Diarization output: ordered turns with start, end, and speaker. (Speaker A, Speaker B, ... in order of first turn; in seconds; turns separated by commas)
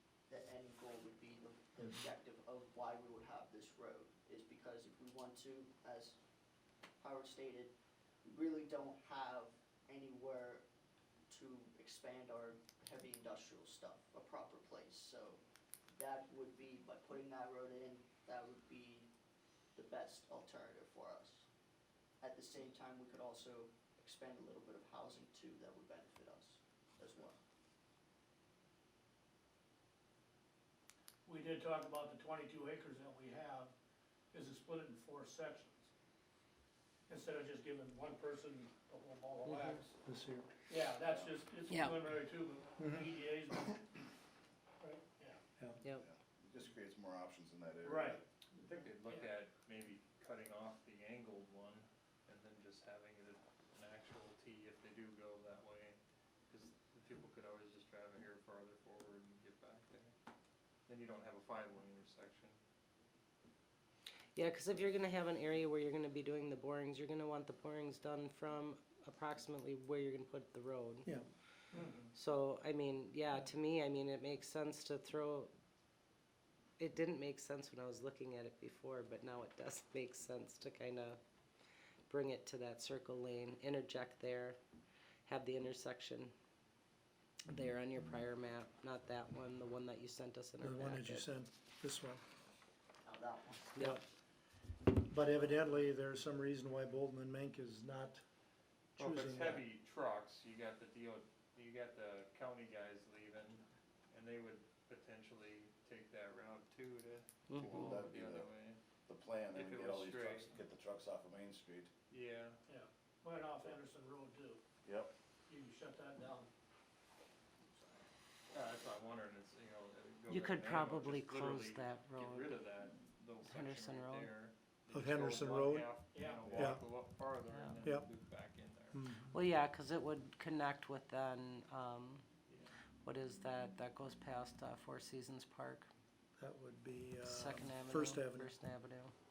Speaker A: 0.3-6.2, Speaker A: 7.0-7.7, Speaker A: 8.2-10.6, Speaker A: 11.3-15.4, Speaker A: 15.9-19.1, Speaker A: 19.7-21.5, Speaker A: 22.2-27.4, Speaker B: 31.2-33.7, Speaker B: 34.3-35.9, Speaker B: 37.1-40.0, Speaker C: 40.0-40.6, Speaker B: 40.7-44.0, Speaker D: 41.0-41.4, Speaker C: 42.8-43.1, Speaker B: 44.8-45.4, Speaker D: 46.0-48.2, Speaker B: 47.8-49.2, Speaker E: 48.7-56.0, Speaker E: 56.5-60.1, Speaker E: 60.9-62.5, Speaker F: 64.3-71.1, Speaker F: 72.1-75.5, Speaker F: 76.8-81.2, Speaker F: 82.1-84.6, Speaker F: 85.2-86.3, Speaker F: 87.5-91.2, Speaker C: 90.6-92.2, Speaker A: 93.0-93.8, Speaker C: 93.8-94.0, Speaker C: 95.1-98.2, Speaker C: 99.0-99.6, Speaker E: 99.0-108.8, Speaker F: 107.5-107.9, Speaker D: 107.5-108.5, Speaker D: 109.0-111.9, Speaker E: 109.5-110.5, Speaker E: 112.1-112.6, Speaker B: 112.7-114.6, Speaker D: 114.8-115.1, Speaker B: 115.5-116.5, Speaker E: 118.5-129.0, Speaker F: 120.3-122.6, Speaker F: 123.4-124.3, Speaker C: 124.9-125.9, Speaker B: 126.1-126.5, Speaker C: 126.5-126.8, Speaker F: 127.5-127.8, Speaker C: 128.9-129.4, Speaker F: 129.3-132.2, Speaker E: 132.5-132.7, Speaker F: 133.0-135.9, Speaker C: 136.4-138.5, Speaker F: 137.2-139.1